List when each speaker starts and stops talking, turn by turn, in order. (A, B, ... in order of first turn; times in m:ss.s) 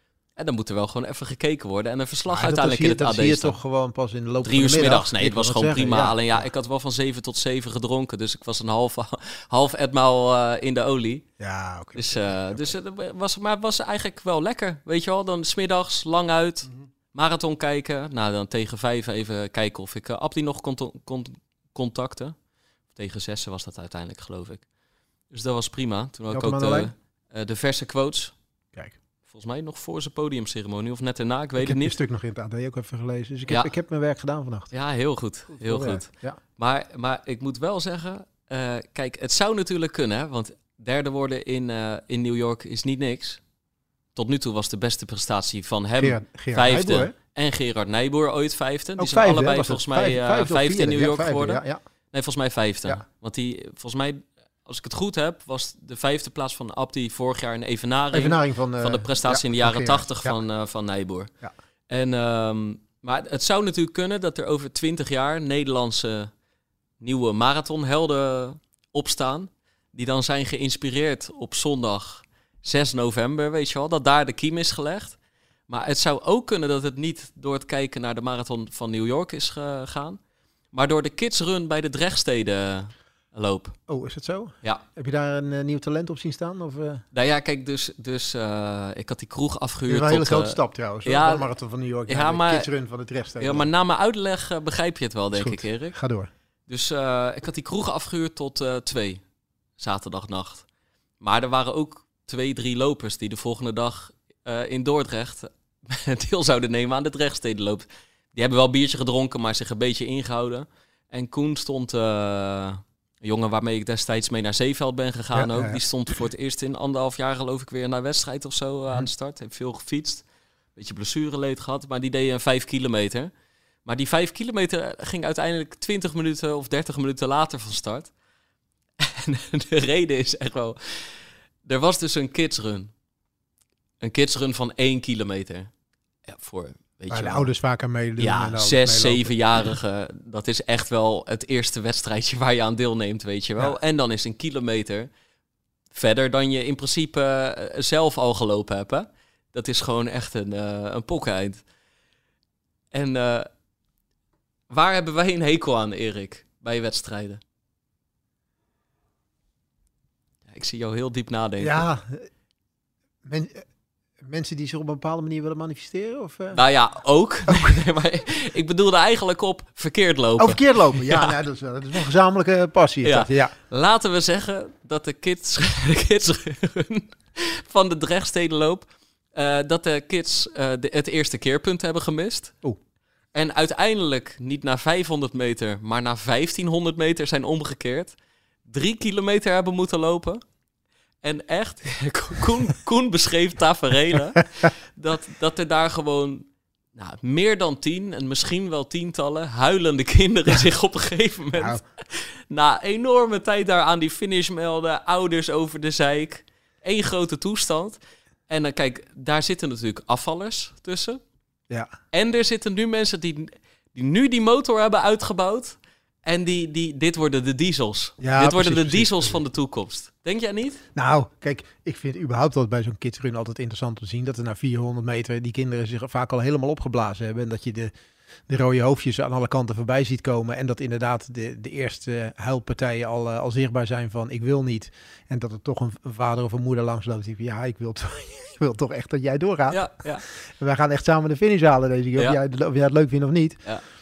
0:00.4-0:03.6 A
0:02.3-0:06.5 B
0:04.4-0:11.3 A
0:11.4-0:12.8 B
0:12.0-0:22.4 A
0:22.9-0:24.7 A
0:25.3-0:28.4 A
0:26.3-0:26.9 B
0:29.3-0:32.0 A
0:31.6-0:34.7 B
0:34.7-0:43.4 A
0:35.5-0:36.4 B
0:44.2-1:01.3 A
0:46.0-0:47.2 B
0:49.0-0:51.8 B
0:58.1-1:00.4 B
1:01.9-1:06.3 A
1:07.0-1:20.2 A
1:20.7-1:23.8 A
1:23.9-1:27.0 B
1:27.1-1:31.5 A
1:29.9-1:33.7 B
1:32.1-1:32.7 A
1:33.4-1:36.0 A
1:35.3-1:36.3 B
1:36.7-1:39.2 A
1:39.8-1:40.7 A
1:41.2-2:03.3 A
1:55.3-1:56.2 B
2:03.8-2:08.1 A
2:09.0-2:12.9 A
2:14.0-2:15.7 A
2:16.3-2:17.5 A
2:17.1-2:19.7 B
2:18.2-2:25.1 A
2:25.9-2:31.6 A
2:32.9-2:33.5 A
2:34.7-2:37.4 A
2:40.5-2:41.9 A
2:41.6-2:42.3 B
2:43.2-2:43.6 B
2:44.2-2:46.6 B
2:46.5-2:51.3 A
2:47.5-2:47.7 B
2:50.4-2:53.5 B
2:53.0-3:02.6 A
3:03.3-3:10.4 A
3:11.2-3:31.2 A
3:21.6-3:21.8 B
3:32.1-3:40.8 A
3:38.2-3:39.4 B
3:41.0-3:47.9 B
3:48.5-4:03.7 B
3:59.7-4:00.2 A